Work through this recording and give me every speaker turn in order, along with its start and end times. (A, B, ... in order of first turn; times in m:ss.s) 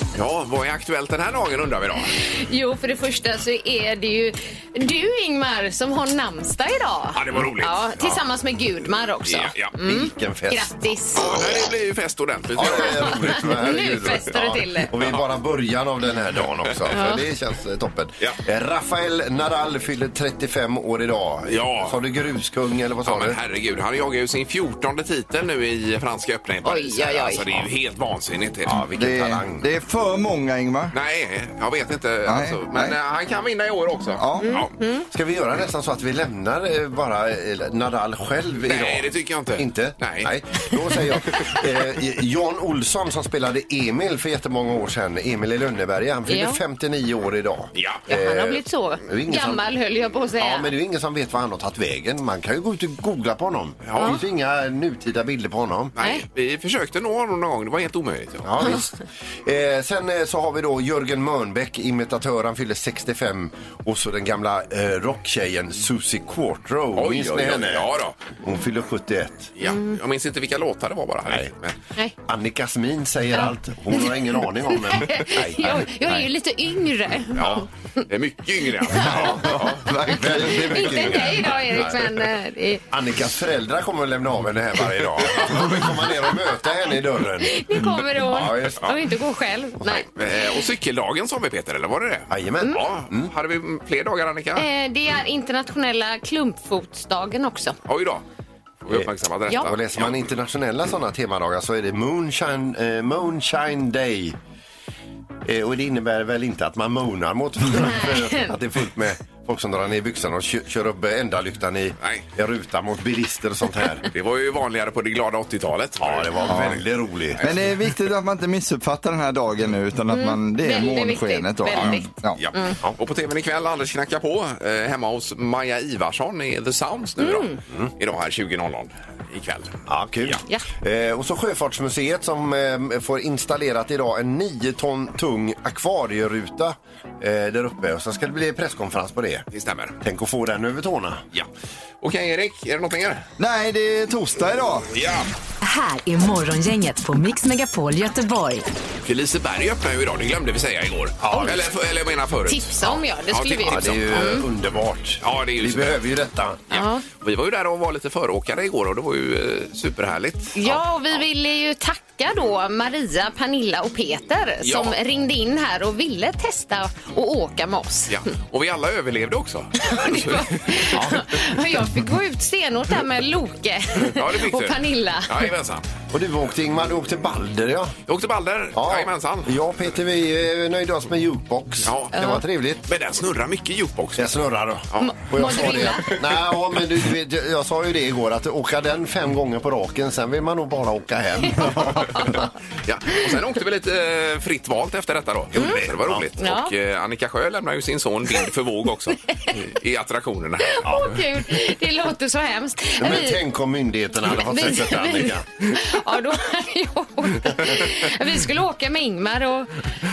0:00.1-0:02.1 A
0:02.3-0:11.2 B
0:07.1-0:08.2 A
0:09.2-0:09.7 A
0:09.8-0:10.7 C
0:11.2-0:13.5 A
0:12.5-0:23.4 C
0:12.6-0:14.9 B
0:16.9-0:17.2 B
0:21.5-0:22.0 A
0:23.0-0:28.8 A
0:26.6-0:27.4 B
0:28.6-0:29.6 C
0:28.9-0:30.9 D
0:30.9-0:34.7 A
0:32.2-0:32.9 D
0:34.2-0:34.5 D
0:34.4-0:35.1 B
0:35.1-0:49.6 C
0:38.6-0:41.0 A
0:46.3-0:46.6 B
0:47.7-0:48.0 A
0:48.1-0:50.7 B
0:50.4-0:55.9 C
0:53.8-0:54.2 A
0:53.9-0:54.2 B
0:56.0-0:58.8 A
0:56.0-0:56.2 B
0:58.4-1:07.9 C
1:06.9-1:08.2 A
1:08.4-1:09.5 C
1:09.6-1:11.7 A
1:12.2-1:15.9 C
1:13.4-1:14.1 B
1:14.9-1:17.6 B
1:17.4-1:20.2 A
1:19.0-1:22.2 C
1:20.4-1:22.8 B
1:22.9-1:28.8 C
1:27.4-1:30.3 B
1:29.8-1:34.6 A
1:32.3-1:33.3 C
1:34.6-1:37.8 B
1:37.8-1:38.2 A
1:38.8-1:40.2 A
1:38.9-1:44.4 C
1:45.4-1:54.1 C
1:47.8-1:48.4 B
1:54.1-1:56.8 A
1:56.0-1:57.6 C
1:56.5-1:56.8 D
1:57.4-2:02.4 D
2:00.1-2:02.8 B
2:01.7-2:10.4 A
2:07.2-2:07.6 B
2:09.9-2:19.4 C
2:19.5-2:20.0 A
2:20.0-2:21.2 C
2:22.0-2:23.2 A
2:23.4-2:24.9 D
2:24.9-2:25.3 A
2:25.6-2:28.7 E
2:29.0-2:34.4 A
2:31.2-2:31.6 C
2:32.5-2:34.4 B
2:33.6-2:36.6 C
2:35.2-2:36.0 A
2:36.7-2:40.8 A
2:36.7-2:37.0 B
2:40.5-2:48.2 B
2:44.6-2:44.9 A
2:48.1-2:51.0 A
2:49.8-2:55.5 B
2:54.0-2:55.8 A
2:56.1-2:58.0 C
2:58.1-2:59.6 A
2:58.7-3:02.8 C
3:01.8-3:02.2 A
3:02.1-3:02.4 B
3:02.8-3:04.4 A
3:04.2-3:12.5 C
3:04.9-3:06.0 A
3:05.0-3:06.0 B
3:11.5-3:12.4 B
3:12.8-3:20.9 A
3:15.5-3:16.2 C
3:15.5-3:15.8 B
3:16.4-3:16.7 B
3:20.6-3:23.4 B
3:23.0-3:25.5 C
3:24.3-3:29.8 B